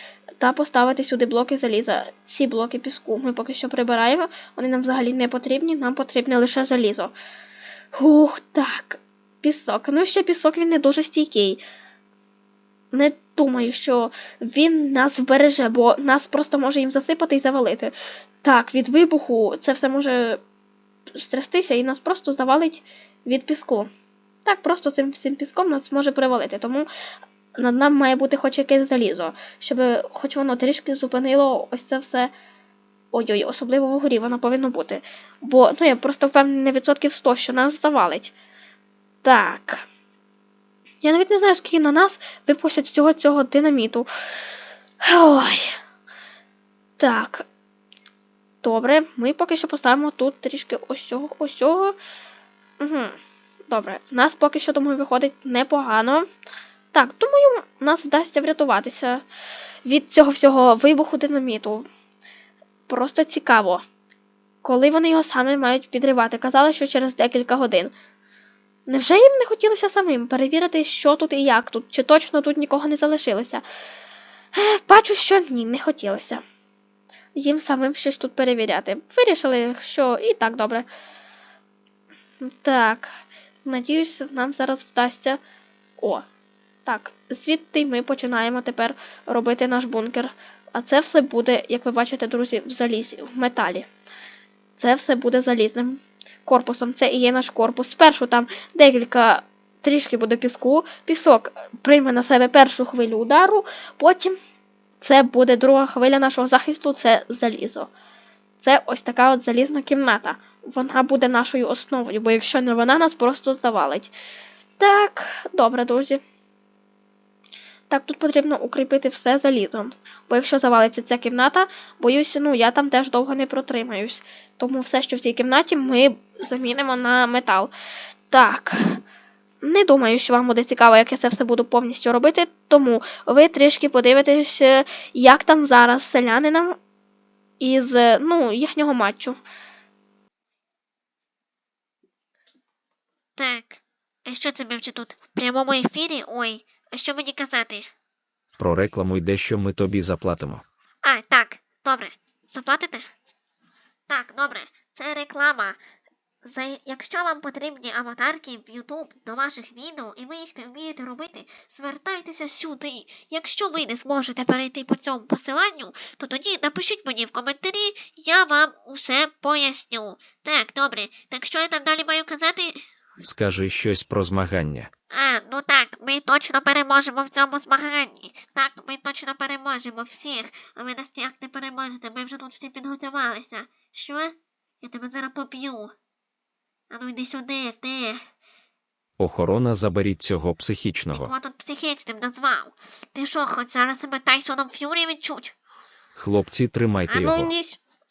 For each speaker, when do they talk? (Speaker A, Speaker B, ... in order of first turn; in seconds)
Speaker A: 0.4-7.1, 7.9-11.6, 12.9-20.4, 21.1-23.9, 24.4-26.9, 27.6-32.3, 33.1-38.3, 39.2-39.8, 41.0-44.1, 45.0-45.8, 47.0-47.5, 48.6-52.0, 52.8-53.1, 53.7-56.3, 56.9-59.2, 59.8-61.8, 62.9-63.8, 64.6-67.9, 68.9-73.6, 74.5-76.4, 77.3-80.9, 82.4-83.1, 83.6-85.4, 86.0-86.2, 86.8-93.9, 94.8-104.3, 105.0-107.9, 108.6-114.1, 114.8-116.2, 117.9-127.7, 128.3-129.0, 129.6-136.8, 137.6-139.4
Speaker B: 143.3-147.9, 151.0-153.0, 154.1-155.8, 156.4-172.8, 175.1-185.9, 186.9-188.2, 191.1-195.5, 197.1-197.7
Speaker C: 148.6-150.6, 173.2-174.9, 189.2-191.3, 196.1-197.5